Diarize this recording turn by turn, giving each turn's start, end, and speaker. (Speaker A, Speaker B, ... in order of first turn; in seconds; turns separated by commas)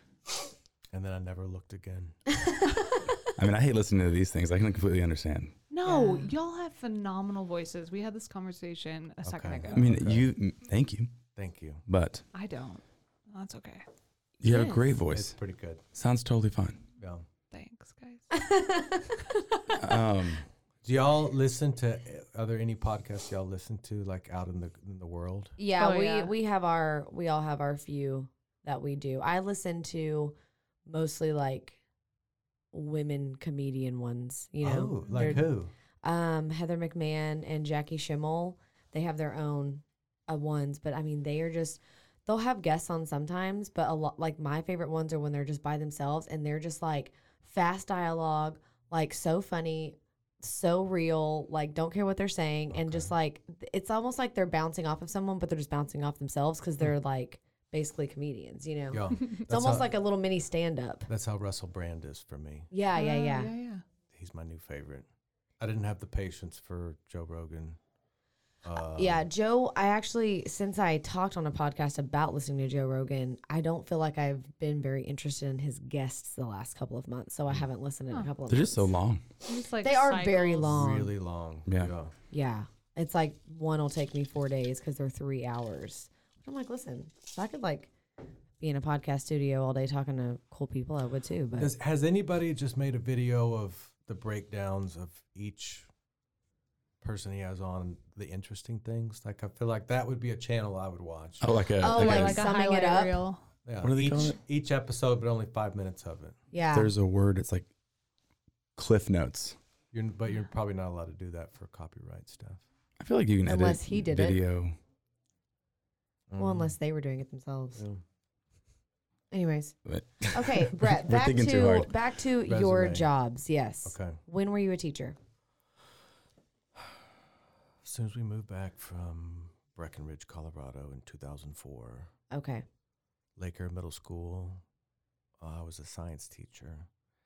Speaker A: 0.9-2.2, Speaker B: 3.4-5.5, Speaker C: 5.7-9.9, Speaker D: 5.8-6.3, Speaker A: 9.2-10.3, Speaker B: 9.7-11.1, Speaker A: 11.3-11.8, Speaker B: 11.9-12.2, Speaker C: 12.3-13.8, Speaker B: 14.4-15.3, Speaker D: 14.4-14.9, Speaker A: 15.1-15.8, Speaker B: 15.9-16.8, Speaker A: 17.0-17.2, Speaker C: 17.5-18.3, Speaker D: 18.3-19.1, Speaker B: 19.7-20.5, Speaker A: 20.8-25.6, Speaker D: 25.6-30.3, Speaker C: 25.8-26.3, Speaker D: 30.9-31.8, Speaker D: 32.7-35.5, Speaker A: 34.6-35.7, Speaker C: 35.1-35.4, Speaker D: 36.0-61.1, Speaker A: 52.7-53.1, Speaker A: 58.9-59.9, Speaker A: 61.1-62.7, Speaker D: 62.7-63.5, Speaker C: 62.9-63.8, Speaker A: 64.1-65.1, Speaker A: 65.6-67.8, Speaker A: 68.6-69.2, Speaker D: 68.9-78.9, Speaker B: 78.5-79.2, Speaker C: 79.5-80.8, Speaker D: 79.8-81.1, Speaker A: 80.6-82.1, Speaker B: 81.7-81.9, Speaker D: 82.3-87.9, Speaker D: 88.6-91.7, Speaker A: 91.5-95.9, Speaker A: 97.0-101.6, Speaker B: 101.4-102.4, Speaker D: 101.8-103.2, Speaker C: 101.8-103.4, Speaker A: 103.7-106.4, Speaker B: 103.8-104.4, Speaker D: 106.5-106.9, Speaker B: 106.7-107.7, Speaker B: 108.8-109.6, Speaker A: 109.9-112.6, Speaker B: 113.0-114.8, Speaker D: 113.5-114.4, Speaker A: 116.3-116.7, Speaker D: 116.4-117.8, Speaker A: 117.7-118.0, Speaker D: 119.3-119.7, Speaker B: 119.8-122.0, Speaker D: 120.3-125.2, Speaker A: 122.5-123.1, Speaker A: 123.8-124.2, Speaker A: 127.8-132.1, Speaker D: 132.3-132.6, Speaker A: 133.4-134.6, Speaker A: 135.4-136.9